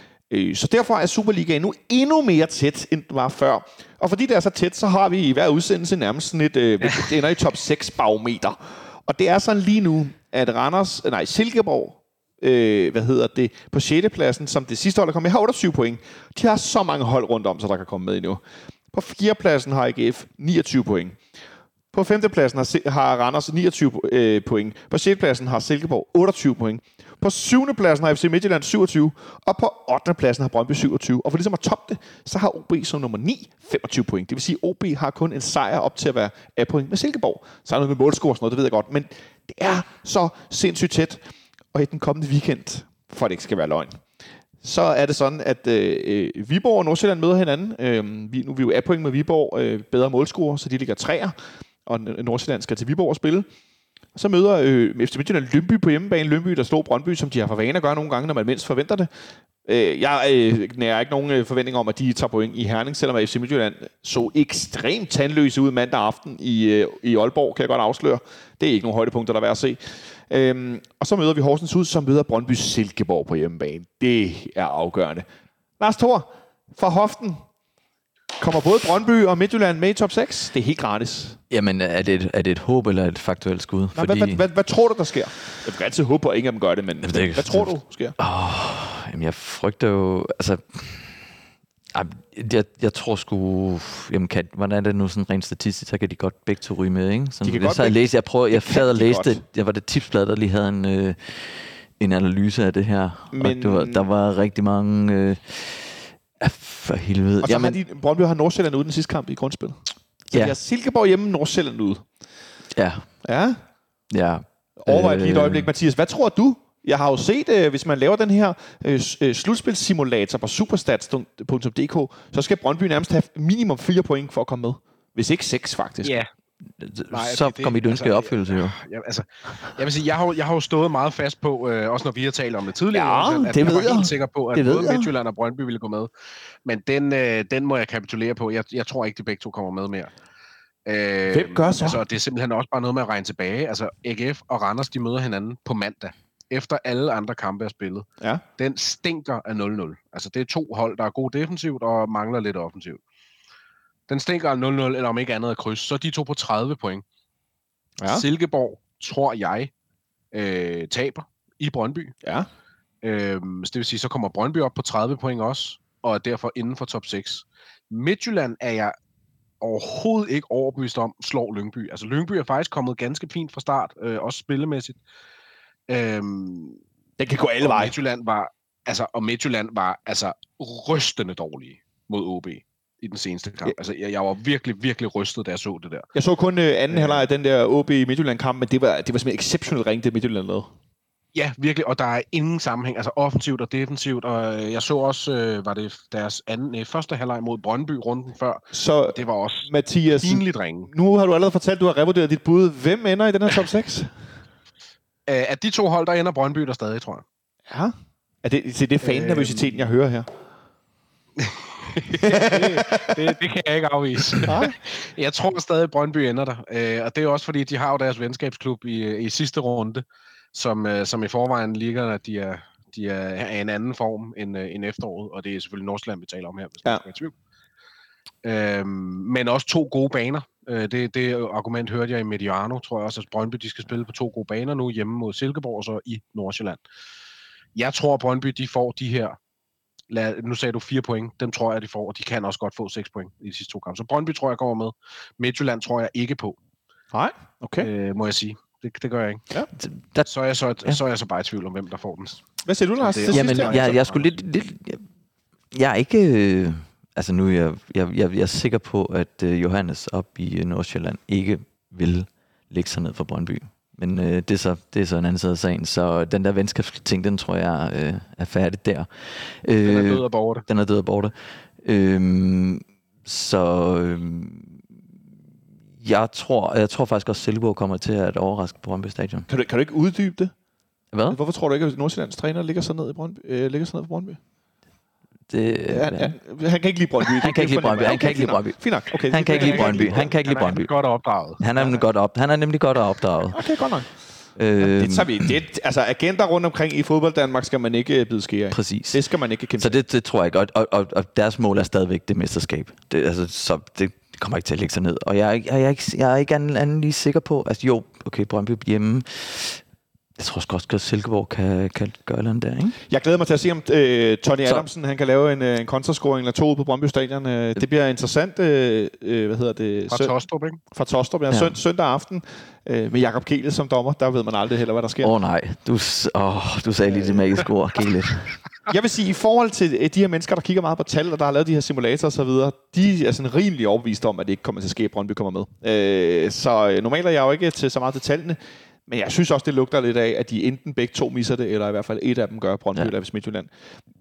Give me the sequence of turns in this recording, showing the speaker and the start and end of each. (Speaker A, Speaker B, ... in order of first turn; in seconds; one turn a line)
Speaker A: 0.3-21.2
Speaker B: 6.8-7.1
Speaker A: 21.9-41.2
Speaker A: 41.7-44.0
Speaker A: 44.6-53.5
Speaker A: 54.1-59.1
Speaker A: 59.6-75.2
Speaker A: 75.8-77.4
Speaker A: 78.4-81.4
Speaker C: 81.5-84.4
Speaker A: 84.0-88.1
Speaker C: 87.0-91.3
Speaker C: 91.9-107.8
Speaker A: 97.4-99.4
Speaker A: 103.3-104.0
Speaker A: 107.4-109.8
Speaker A: 110.3-112.0
Speaker C: 112.7-113.1
Speaker A: 113.2-113.6
Speaker C: 114.1-115.7
Speaker A: 114.8-126.2
Speaker B: 126.0-126.3
Speaker C: 126.8-128.8
Speaker B: 127.1-136.1
Speaker A: 132.9-135.1
Speaker B: 136.6-140.1
Speaker B: 140.9-153.0
Speaker A: 141.3-142.0
Speaker B: 154.1-157.0
Speaker A: 158.0-158.2
Speaker B: 158.0-159.7
Speaker B: 160.3-162.2
Speaker A: 162.2-162.5
Speaker B: 163.0-168.9
Speaker B: 169.6-175.0
Speaker B: 175.9-176.8
Speaker A: 177.2-178.0
Speaker B: 177.6-186.1
Speaker A: 186.1-190.7
Speaker B: 186.9-187.3
Speaker B: 191.3-200.9
Speaker A: 198.7-204.1
Speaker B: 205.2-207.2
Speaker A: 207.7-210.3
Speaker B: 209.0-209.8
Speaker B: 211.4-220.0
Speaker A: 212.1-213.3
Speaker A: 214.4-214.8
Speaker B: 220.5-227.3
Speaker B: 228.4-236.8
Speaker B: 237.8-239.4
Speaker B: 240.1-246.6
Speaker A: 247.1-247.9
Speaker B: 247.8-249.4
Speaker C: 249.8-250.3
Speaker B: 250.3-252.4
Speaker A: 252.6-253.9
Speaker B: 253.0-254.3
Speaker C: 253.3-255.1
Speaker C: 255.7-274.8
Speaker B: 269.8-270.7
Speaker C: 276.0-279.5
Speaker A: 279.5-280.5
Speaker C: 281.1-281.4
Speaker A: 281.3-284.4
Speaker C: 285.5-286.3
Speaker A: 285.9-290.3
Speaker C: 287.4-290.9
Speaker B: 289.5-292.0
Speaker C: 291.6-293.6
Speaker A: 293.5-294.1
Speaker C: 294.6-295.5
Speaker A: 294.8-299.9
Speaker C: 298.7-299.2
Speaker C: 299.8-309.8
Speaker C: 310.4-313.0
Speaker A: 313.1-320.3
Speaker B: 320.1-320.8
Speaker A: 320.9-325.3
Speaker C: 321.5-321.8
Speaker C: 325.2-328.6
Speaker A: 328.9-343.7